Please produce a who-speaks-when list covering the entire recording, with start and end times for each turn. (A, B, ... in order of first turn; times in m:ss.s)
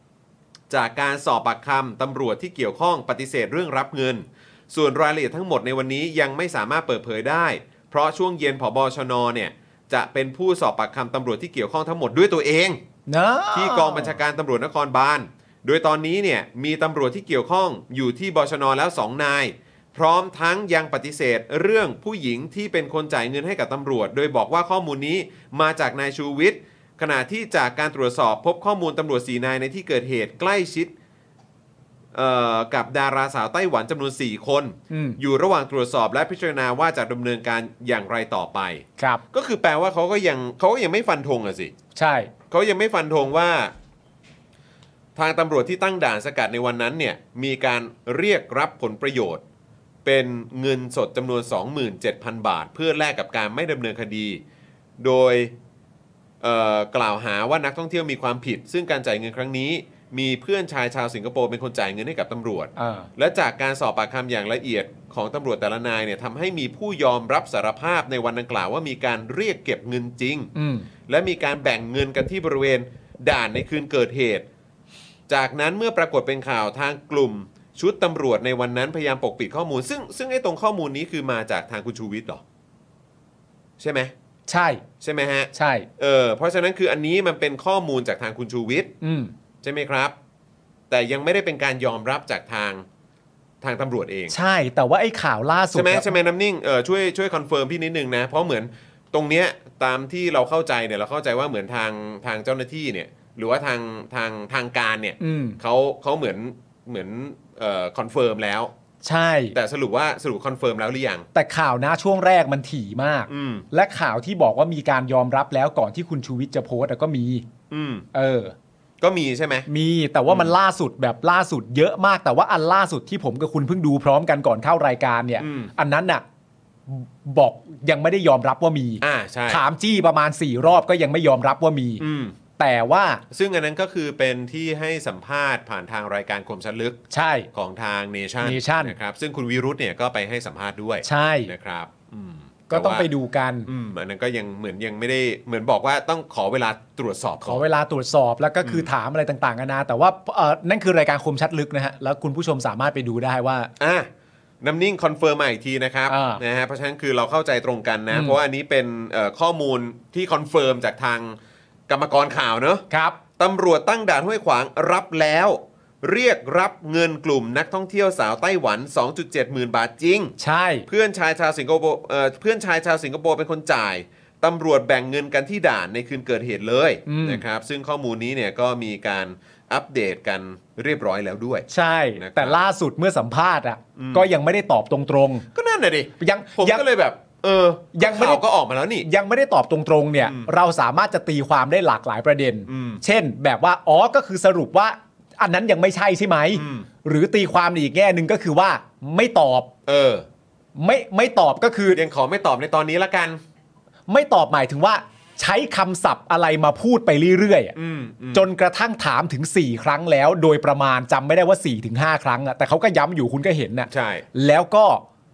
0:00.7-0:12.8 A
0:13.1-0:14.2 B
0:13.5-0:30.9 A
0:32.1-0:41.7 A
0:34.9-0:35.2 B
0:39.0-0:39.2 B
0:42.0-0:42.3 B
0:42.5-0:43.7 A
0:45.2-0:49.4 A
0:50.0-0:54.4 A
0:55.0-0:55.5 A
0:56.4-1:10.5 A
1:02.8-1:03.1 B
1:10.6-1:10.9 B
1:11.1-1:14.5 A
1:15.3-1:22.4 A
1:23.8-1:24.1 A
1:24.5-1:24.8 B
1:25.0-1:28.9 A
1:25.5-1:25.9 B
1:29.0-1:29.3 B
1:29.6-1:30.2 A
1:30.9-1:32.9 A
1:33.6-1:34.4 A
1:34.3-1:36.1 B
1:35.7-1:48.7 A
1:45.2-1:45.6 B
1:49.0-1:49.6 B
1:49.5-1:51.2 A
1:51.3-1:57.4 B
1:53.3-1:53.6 A
1:57.7-1:58.1 A
1:58.1-1:58.5 B
1:59.0-1:59.7 A
1:59.7-2:06.2 B
2:05.4-2:05.7 A
2:06.9-2:12.0 B
2:09.0-2:09.6 A
2:12.0-2:12.4 A
2:12.6-2:13.2 B
2:13.3-2:17.0 A
2:17.1-2:17.5 B
2:17.5-2:23.1 A
2:18.4-2:18.9 B
2:21.0-2:21.5 B
2:22.7-2:23.7 B
2:23.7-2:27.6 A
2:27.4-2:33.7 B
2:28.6-2:28.9 A
2:33.8-2:34.1 A
2:34.6-2:41.4 A
2:36.1-2:36.4 B
2:38.1-2:38.4 B
2:41.9-2:42.8 A
2:42.9-2:43.2 B
2:43.4-2:50.4 A
2:50.4-2:50.9 B
2:50.9-3:02.6 A
2:57.1-2:57.4 B
3:01.7-3:05.5 B
3:04.0-3:04.3 A
3:05.5-3:09.1 A
3:06.2-3:06.9 B
3:08.0-3:08.4 B
3:09.0-3:19.7 B
3:10.2-3:10.5 A
3:12.7-3:13.0 A
3:16.5-3:16.9 A
3:19.9-3:20.3 A
3:20.8-3:22.0 B
3:21.9-3:23.4 A
3:24.1-3:27.8 B
3:27.8-3:28.5 A
3:28.3-3:35.0 B
3:33.9-3:34.2 A